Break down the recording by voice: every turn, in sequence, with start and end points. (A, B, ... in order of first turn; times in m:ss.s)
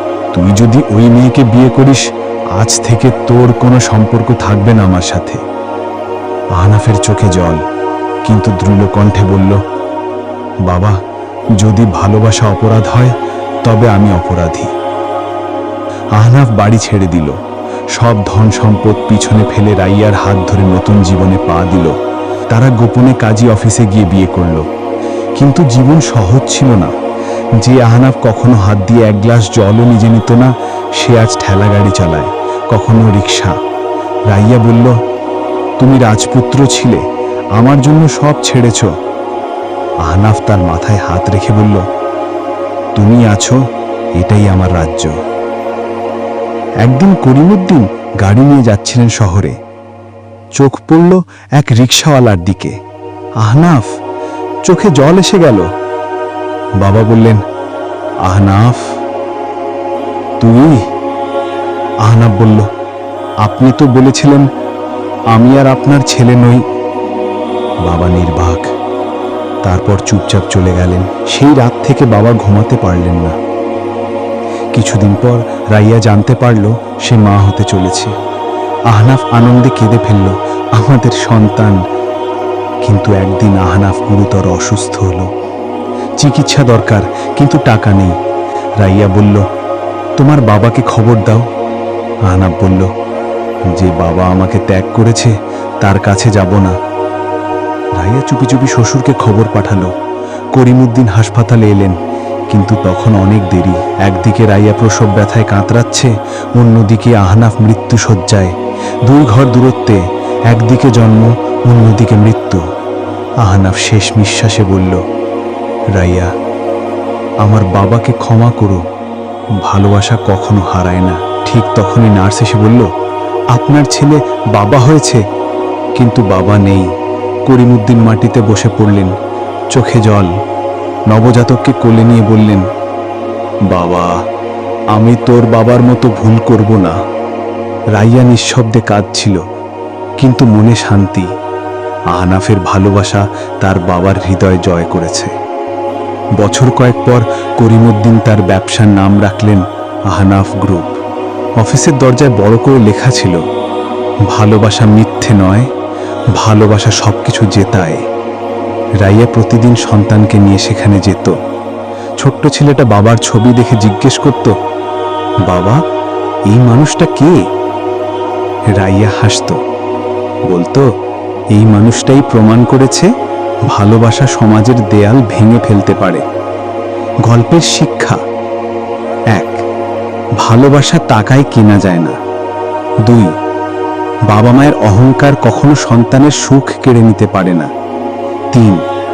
0:00.3-0:05.4 A
0:06.6-0:07.6 A
0:08.2-0:09.6 A
0:10.6-0:11.0 A
0:11.6-0:14.7 A
0:16.1-0:17.4 A
0:17.9-0:22.0 A
0:22.5-0:24.7 A
0:25.4-0:26.9 A
0:27.6-0:33.6 A
0:34.3-0:35.0 A
0:35.8-0:38.9 A
0:40.0-0:41.8 A
0:43.0-0:43.6 A
0:44.2-0:45.2 A
0:46.8-0:49.6 A
0:50.6-0:52.8 A
0:53.4-0:54.0 A
0:54.6-0:55.7 A
0:56.8-0:57.4 A
0:58.2-0:59.0 A
1:00.4-1:00.9 A
1:02.0-1:02.7 A
1:03.4-1:04.5 A
1:05.3-1:06.7 A
1:07.8-1:08.7 A
1:09.6-1:13.4 A
1:14.7-1:18.2 A
1:18.9-1:21.8 A
1:22.8-1:25.3 A
1:26.2-1:28.2 A
1:28.8-1:29.5 A
1:30.2-1:31.5 A
1:32.3-1:32.9 A
1:33.7-1:36.8 A
1:38.0-1:39.9 A
1:40.5-1:42.0 A
1:42.5-1:52.6 A
1:53.4-1:55.0 A
1:55.9-1:56.3 A
1:57.4-1:58.8 A
1:59.6-2:02.9 A
2:03.5-2:05.2 A
2:06.0-2:06.9 A
2:07.5-2:09.2 A
2:09.7-2:10.3 A
2:11.1-2:12.7 A
2:13.7-2:14.2 A
2:14.9-2:17.0 A
2:17.9-2:19.4 A
2:20.2-2:21.3 A
2:22.1-2:25.3 A
2:26.4-2:31.0 A
2:31.6-2:33.4 A
2:34.3-2:35.7 A
2:36.4-2:38.0 A
2:39.0-2:41.4 A
2:42.2-2:44.6 A
2:45.5-2:45.8 A
2:46.5-2:47.4 A
2:48.8-2:49.6 A
2:50.5-2:50.9 A
2:51.5-2:53.1 A
2:53.6-2:56.2 A
2:57.3-2:58.2 A
2:59.3-2:59.6 A
3:00.4-3:02.2 A
3:03.0-3:03.3 A
3:04.3-3:07.7 A
3:08.5-3:08.8 A